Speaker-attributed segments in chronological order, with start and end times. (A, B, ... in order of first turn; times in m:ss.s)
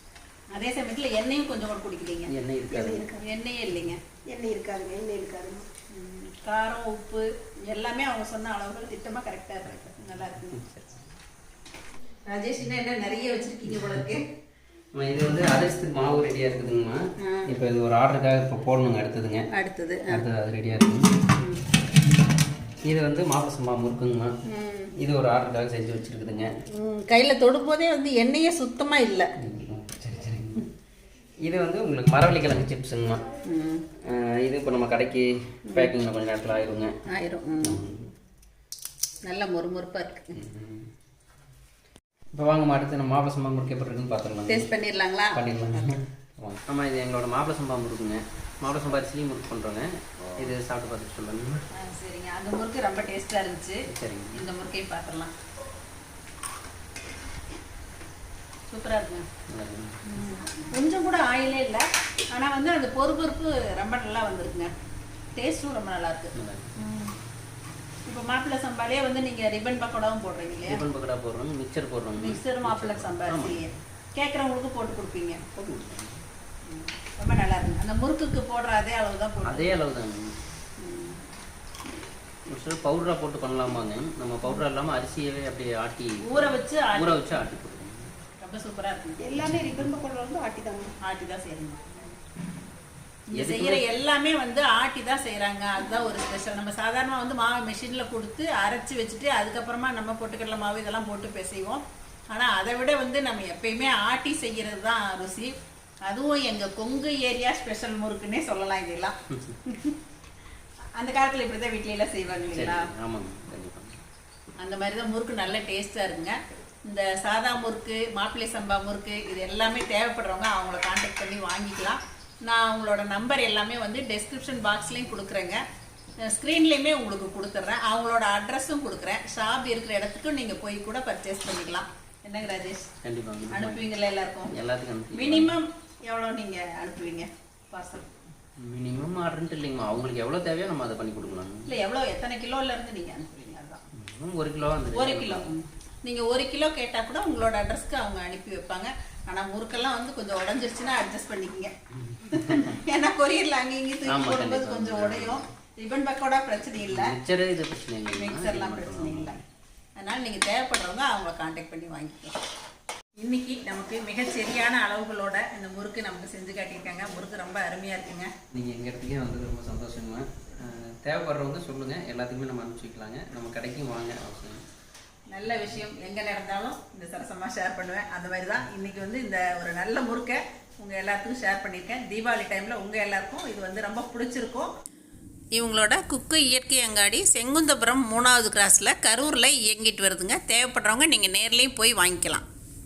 0:00.5-0:02.3 A
0:02.3-0:03.1 B
0:02.7-0:03.2 C
0:03.2-0:04.0 A
0:04.3-0:05.6 C
0:05.9-0:10.6 A
0:10.5-0:11.0 B
0:12.2-0:14.2 A
0:14.9-0:19.5 B
0:17.2-0:17.5 A
0:19.5-0:20.2 A
0:20.1-0:21.2 B
0:21.4-0:21.6 A
0:22.9-0:24.3 B
0:24.4-0:24.9 A
0:25.0-0:26.5 B
0:26.7-0:29.3 A
0:29.4-0:30.7 B
0:31.4-0:33.2 B
0:33.4-0:33.8 A
0:34.0-0:36.9 B
0:37.0-0:37.8 A
0:37.6-0:38.1 B
0:39.2-0:40.3 A
0:40.4-0:40.9 B
0:42.3-0:44.7 B
0:44.5-0:45.4 A
0:45.3-0:51.6 B
0:51.7-0:53.8 A
0:53.9-0:54.4 B
0:54.3-0:55.3 A
0:58.7-0:59.2 A
0:59.5-1:00.0 B
1:00.2-1:04.7 A
1:05.4-1:06.3 A
1:06.4-1:06.8 B
1:06.8-1:07.1 C
1:08.0-1:10.8 A
1:10.6-1:13.6 B
1:12.2-1:15.4 A
1:15.4-1:16.2 B
1:16.6-1:19.8 A
1:19.4-1:20.3 B
1:20.8-1:21.2 A
1:22.5-1:28.1 B
1:26.2-1:27.2 A
1:28.4-1:29.3 A
1:29.2-1:30.9 C
1:31.0-1:32.0 A
1:33.3-1:45.5 A
1:33.4-1:33.8 B
1:46.0-1:50.0 A
1:51.0-1:52.9 A
1:52.5-1:54.0 B
1:54.6-2:05.6 A
2:06.2-2:12.9 A
2:13.0-2:13.8 B
2:13.5-2:14.5 A
2:14.5-2:15.5 B
2:15.1-2:18.1 A
2:18.6-2:21.6 B
2:21.7-2:23.8 A
2:24.0-2:25.5 B
2:24.9-2:31.7 A
2:32.0-2:32.8 B
2:32.2-2:37.1 A
2:34.1-2:35.5 B
2:36.8-2:39.4 B
2:38.1-2:39.4 A
2:40.0-2:42.4 A
2:43.2-2:48.3 A
2:48.5-2:54.6 B
2:55.3-3:04.7 A
3:05.6-3:12.4 A